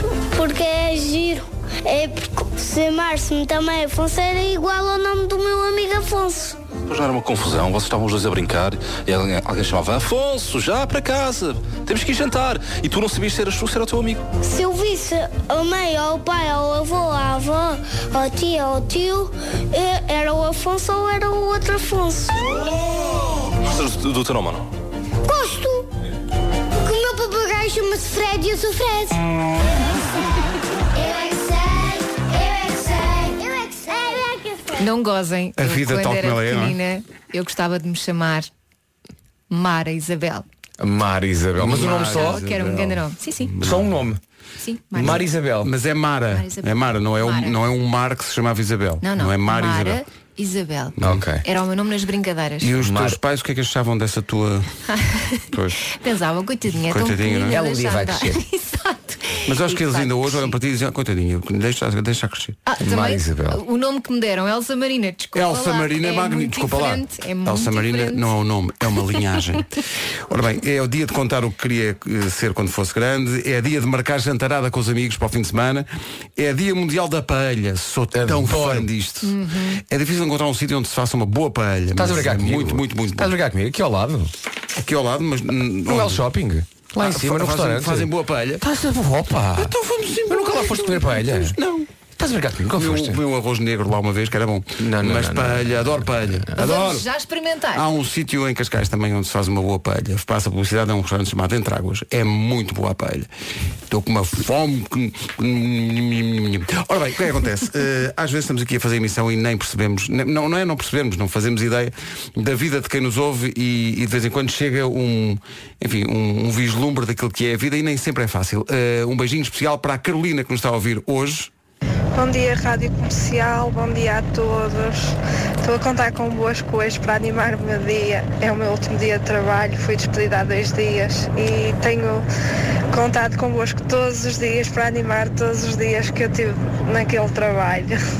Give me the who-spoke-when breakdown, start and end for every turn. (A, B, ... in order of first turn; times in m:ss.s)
0:00.3-0:06.6 A
0:06.9-0:14.2 B
0:14.4-0:22.8 A
0:23.6-0:24.7 B
0:25.2-0:25.9 A
0:26.8-0:29.2 A
0:30.9-0:34.8 A
0:34.8-0:38.5 C
0:35.6-0:36.8 D
0:39.5-0:40.4 C
0:40.8-0:42.4 E
0:41.6-0:44.0 D
0:42.0-0:43.5 C
0:43.6-0:44.2 E
0:44.6-0:45.2 C
0:45.0-0:45.7 E
0:45.0-0:50.0 D
0:46.3-0:47.6 C
0:49.0-0:52.7 C
0:51.0-0:51.2 D
0:51.0-0:51.4 E
0:52.6-0:54.8 D
0:52.8-0:53.2 E
0:54.9-1:00.6 C
0:55.5-0:55.8 D
0:56.9-0:57.6 D
0:57.5-0:58.4 E
0:59.5-1:02.6 D
1:02.7-1:08.3 C
1:02.8-1:03.6 E
1:05.4-1:09.7 D
1:10.3-1:15.9 D
1:16.4-1:19.4 D
1:18.1-1:18.9 E
1:19.2-1:19.8 C
1:19.9-1:23.3 D
1:22.0-1:24.3 E
1:24.8-1:26.3 D
1:25.9-1:28.1 E
1:27.0-1:28.6 D
1:28.6-1:29.8 E
1:29.5-1:31.9 D
1:30.3-1:31.6 E
1:32.2-1:33.2 E
1:32.8-1:37.0 D
1:34.8-1:37.0 E
1:36.6-1:37.8 C
1:37.7-1:43.3 D
1:43.9-2:01.5 D
2:02.2-2:12.2 F
2:12.9-2:18.0 F